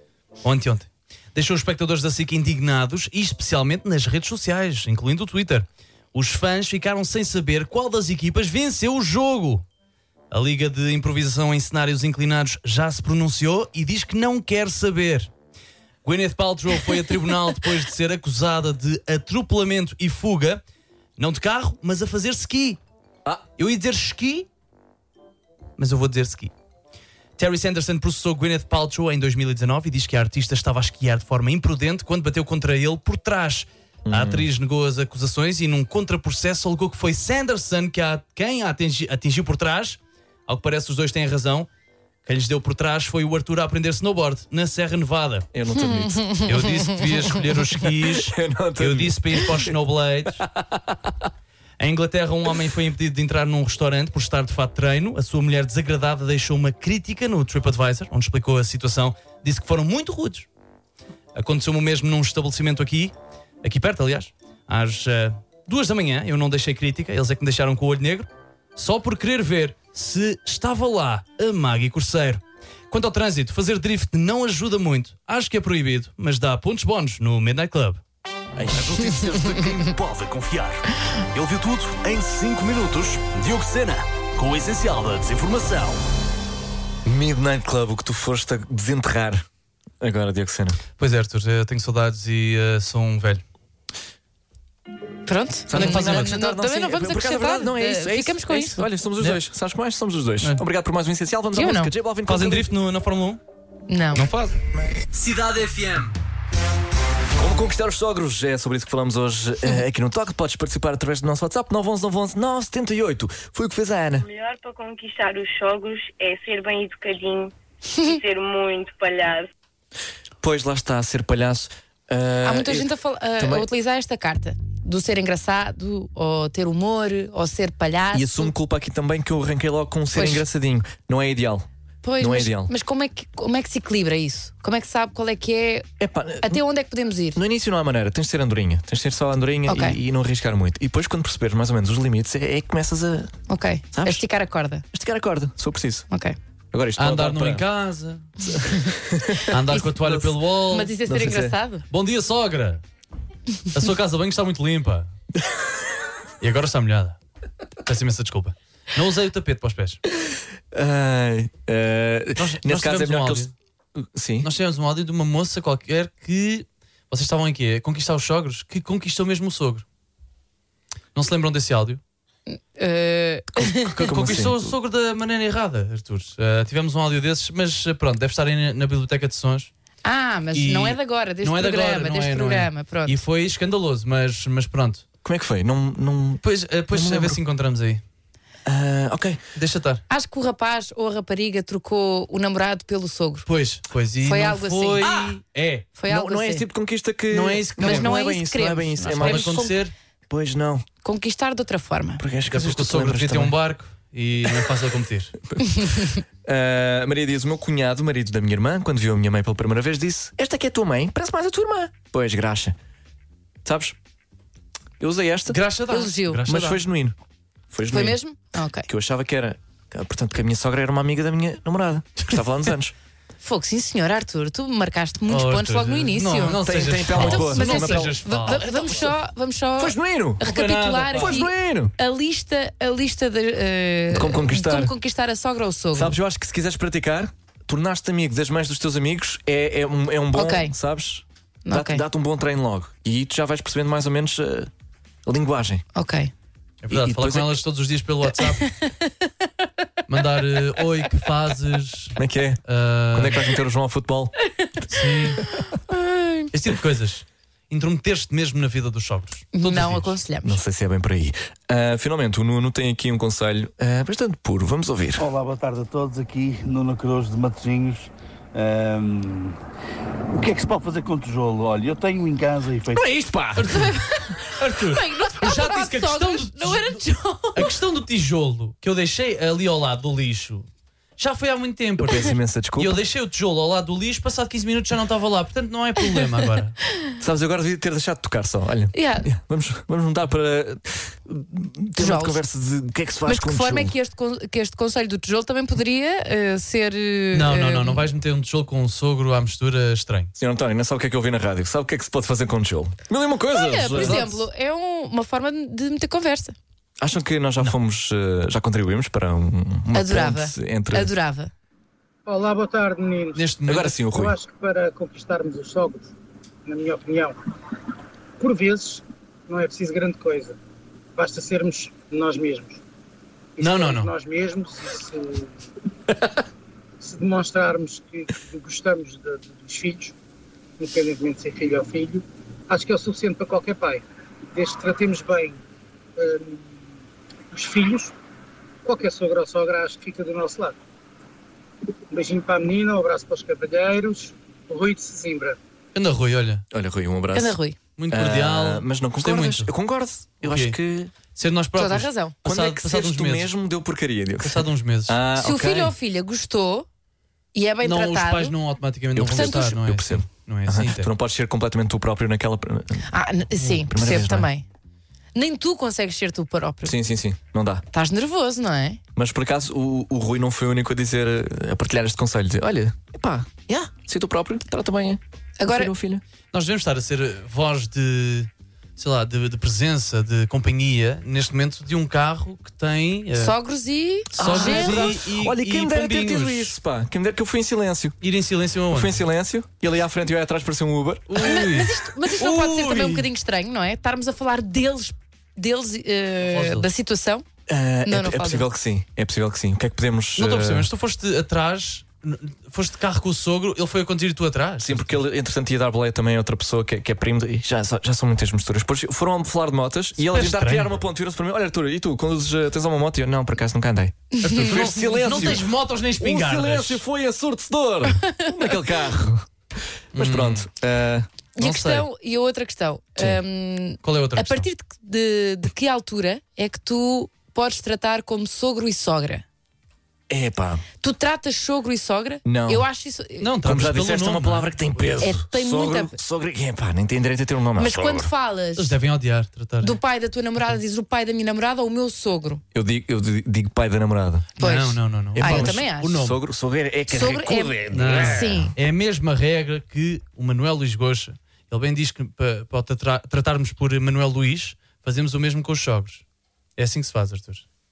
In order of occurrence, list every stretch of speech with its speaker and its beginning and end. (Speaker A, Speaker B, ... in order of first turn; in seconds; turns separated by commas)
Speaker A: 0.4-9.7, Speaker A: 10.3-15.3, Speaker A: 16.0-20.6, Speaker A: 21.2-22.8, Speaker A: 23.6-24.5, Speaker A: 25.8-26.5, Speaker A: 27.4-41.7, Speaker B: 34.1-34.5, Speaker A: 42.3-45.5, Speaker B: 45.5-46.6, Speaker C: 45.8-46.4, Speaker A: 46.4-50.5, Speaker B: 47.9-49.7, Speaker B: 50.4-51.1, Speaker A: 51.8-60.5, Speaker A: 61.4-78.0, Speaker B: 78.6-79.0, Speaker D: 78.7-86.0, Speaker B: 87.0-89.5, Speaker B: 90.0-90.8, Speaker A: 91.0-93.4, Speaker C: 95.3-98.9, Speaker B: 95.7-102.7, Speaker A: 95.7-96.3, Speaker C: 101.5-101.9, Speaker A: 102.3-103.4, Speaker C: 103.9-104.2, Speaker A: 104.2-104.5, Speaker D: 105.1-106.2, Speaker B: 107.4-114.3, Speaker E: 114.2-119.5, Speaker B: 120.4-123.7, Speaker C: 122.4-128.5, Speaker B: 128.1-131.7, Speaker C: 130.1-130.4, Speaker C: 132.0-135.9, Speaker B: 132.2-132.7, Speaker B: 136.0-136.6, Speaker C: 136.4-137.4, Speaker B: 137.3-143.3, Speaker C: 139.7-140.0, Speaker C: 143.5-144.8, Speaker B: 143.9-144.2, Speaker B: 144.9-146.1, Speaker C: 146.1-146.4, Speaker B: 146.7-147.7, Speaker A: 147.0-148.3, Speaker B: 148.5-150.4, Speaker A: 149.5-150.9, Speaker C: 150.7-151.8, Speaker B: 151.1-151.6, Speaker A: 151.9-152.8, Speaker A: 153.7-155.1, Speaker A: 156.4-157.2, Speaker A: 157.8-160.0, Speaker B: 160.7-164.5, Speaker A: 162.4-163.5, Speaker A: 164.4-169.8, Speaker A: 171.2-172.0, Speaker C: 172.5-173.9, Speaker B: 173.6-174.7, Speaker A: 173.8-179.7, Speaker C: 180.0-183.2, Speaker A: 180.5-185.0, Speaker B: 185.2-187.4, Speaker A: 186.4-188.0, Speaker B: 188.7-189.4, Speaker A: 189.6-190.0, Speaker C: 190.1-193.5, Speaker A: 193.5-195.9, Speaker C: 194.2-195.1, Speaker B: 195.0-195.3, Speaker C: 196.0-196.7, Speaker B: 196.1-200.8, Speaker A: 197.3-198.2, Speaker C: 197.8-199.7, Speaker A: 199.1-199.9, Speaker C: 201.0-202.2, Speaker B: 202.2-203.6, Speaker A: 202.5-205.3, Speaker B: 206.4-212.8, Speaker B: 213.6-214.0, Speaker B: 215.0-215.6, Speaker A: 215.5-216.8, Speaker C: 215.9-216.4, Speaker B: 216.5-217.2, Speaker B: 217.7-218.2, Speaker C: 217.9-218.9, Speaker B: 218.9-222.9, Speaker C: 223.4-236.2, Speaker A: 225.3-229.1, Speaker B: 226.6-228.2, Speaker B: 229.8-230.4, Speaker A: 230.4-231.4, Speaker B: 231.1-231.9, Speaker B: 234.1-234.9, Speaker B: 235.9-244.7, Speaker C: 240.3-240.7, Speaker C: 241.7-242.0, Speaker B: 245.3-245.8, Speaker C: 245.9-246.3, Speaker A: 246.8-248.7, Speaker B: 246.9-247.6, Speaker C: 248.6-249.1, Speaker A: 250.1-253.5, Speaker B: 252.2-252.6, Speaker B: 253.1-254.3, Speaker A: 254.9-255.4, Speaker C: 255.6-256.5, Speaker A: 256.5-260.2, Speaker C: 259.5-260.6, Speaker B: 260.4-265.3, Speaker F: 265.2-269.6, Speaker F: 270.3-273.1, Speaker B: 272.9-273.8, Speaker A: 273.6-277.0, Speaker C: 273.7-277.7, Speaker A: 277.5-286.8, Speaker B: 282.0-283.0, Speaker B: 287.2-293.9, Speaker C: 288.9-289.3, Speaker C: 292.0-292.4, Speaker C: 293.3-298.0, Speaker A: 297.3-300.3, Speaker B: 300.4-304.2, Speaker C: 303.5-306.6, Speaker A: 303.9-304.4, Speaker B: 307.0-311.1, Speaker C: 309.9-311.5, Speaker G: 312.3-313.5, Speaker A: 313.4-314.0, Speaker B: 313.7-314.4, Speaker G: 314.1-316.1, Speaker G: 316.7-317.4, Speaker G: 318.4-320.6, Speaker G: 321.2-322.8, Speaker G: 323.6-325.6, Speaker A: 323.6-324.1, Speaker G: 327.0-330.1, Speaker G: 330.8-335.6, Speaker G: 336.2-336.8, Speaker G: 337.5-338.1, Speaker G: 338.9-340.8, Speaker G: 342.1-345.6, Speaker A: 345.9-346.6, Speaker B: 346.7-347.6, Speaker C: 347.3-347.8, Speaker A: 348.0-349.7, Speaker B: 348.1-351.1, Speaker A: 350.4-350.8, Speaker A: 351.3-353.5, Speaker C: 351.8-352.4, Speaker B: 352.4-355.9, Speaker A: 354.4-355.2, Speaker C: 355.4-356.9, Speaker C: 357.5-358.6, Speaker A: 357.8-361.1, Speaker B: 359.1-363.1, Speaker C: 359.3-359.6, Speaker C: 363.1-364.6, Speaker B: 363.7-364.5, Speaker C: 365.3-366.9, Speaker B: 366.9-367.8, Speaker C: 367.9-369.0, Speaker B: 369.2-376.2, Speaker C: 375.6-375.9, Speaker A: 376.5-383.6, Speaker C: 383.4-385.1, Speaker B: 384.4-388.2, Speaker A: 384.4-386.8, Speaker A: 388.2-389.2, Speaker B: 388.9-391.5, Speaker A: 391.3-393.3, Speaker C: 391.4-397.4, Speaker A: 396.5-396.9, Speaker B: 397.7-400.9, Speaker C: 398.1-398.7, Speaker A: 400.4-405.2, Speaker B: 404.8-419.5, Speaker A: 410.2-410.9, Speaker A: 414.4-417.0, Speaker C: 414.5-414.8, Speaker B: 420.1-421.3, Speaker A: 420.1-420.7, Speaker C: 421.6-429.4, Speaker A: 421.6-422.1, Speaker A: 424.0-424.7, Speaker B: 430.3-430.8, Speaker C: 431.0-433.5, Speaker B: 432.4-432.9, Speaker A: 433.4-434.7, Speaker B: 433.6-438.3, Speaker C: 435.2-436.2, Speaker C: 437.8-438.9, Speaker A: 438.8-440.0, Speaker C: 439.8-442.6, Speaker B: 442.7-444.5, Speaker A: 444.6-446.4, Speaker C: 444.6-446.2, Speaker B: 445.4-448.7, Speaker C: 447.1-448.7, Speaker A: 447.9-456.2, Speaker A: 456.8-457.6